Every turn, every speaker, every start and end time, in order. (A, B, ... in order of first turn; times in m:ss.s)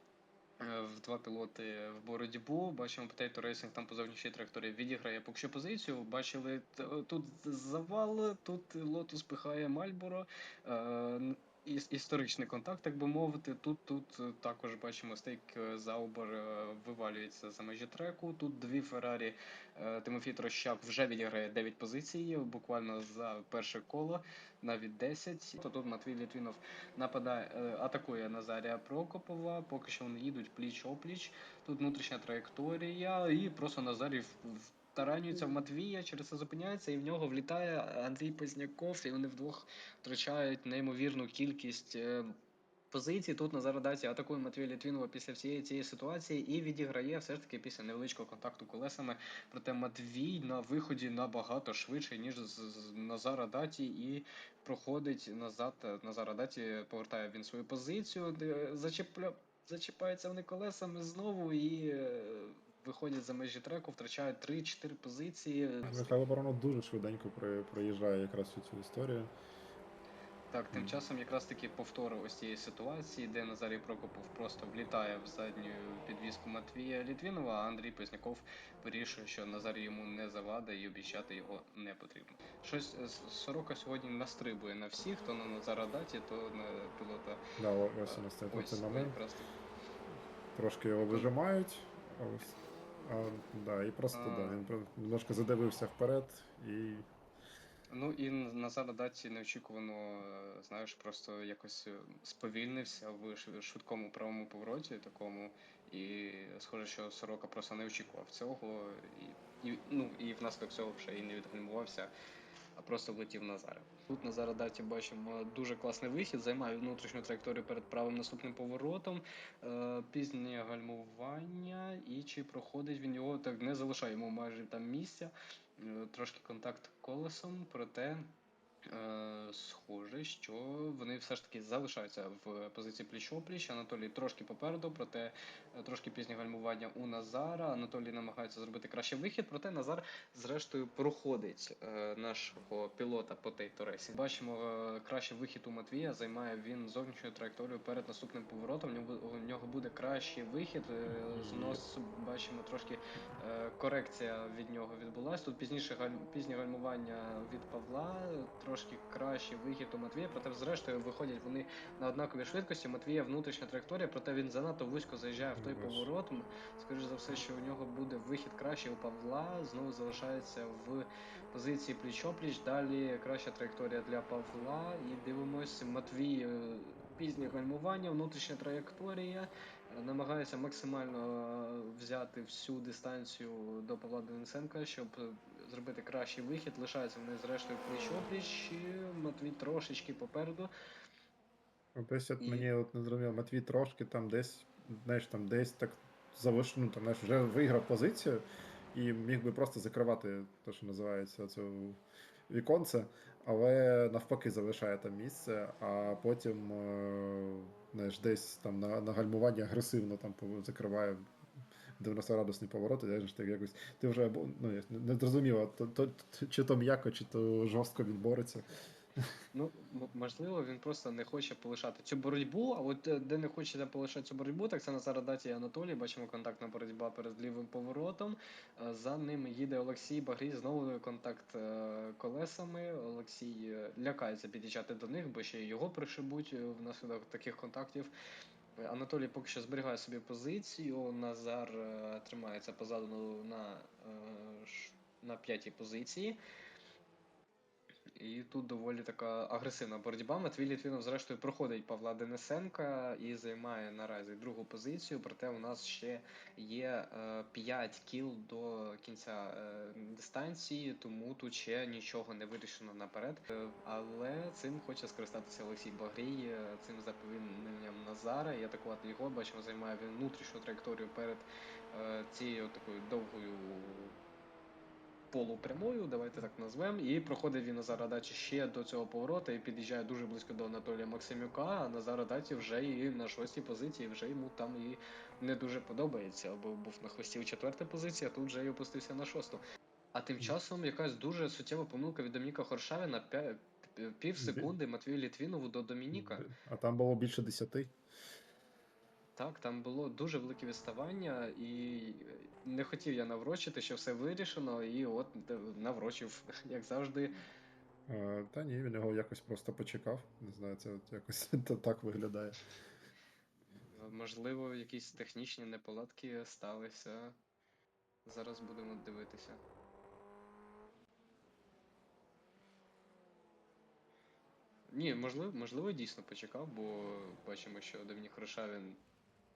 0:00.6-0:42.3 A
0:42.9-1:06.2 A
1:05.8-1:09.3 B
1:10.5-1:27.4 A
1:27.6-1:29.2 B
1:28.1-1:29.5 A
1:30.6-1:37.1 B
1:34.1-1:34.6 A
1:37.9-1:52.1 A
1:52.8-2:08.3 A
2:08.9-3:10.7 A
2:31.3-2:31.8 B
2:45.6-2:46.1 B
3:12.0-3:31.3 B
3:12.4-3:12.7 A
3:32.0-3:38.7 B
3:39.5-3:58.1 A
3:58.8-4:06.4 A
4:08.2-4:34.2 A
4:35.3-4:49.6 A
4:50.1-4:56.5 A
4:54.4-4:54.7 B
4:56.1-4:57.9 B
4:59.4-5:07.3 A
5:08.1-5:12.6 B
5:13.9-5:17.4 A
5:18.2-5:19.6 A
5:24.9-5:29.0 A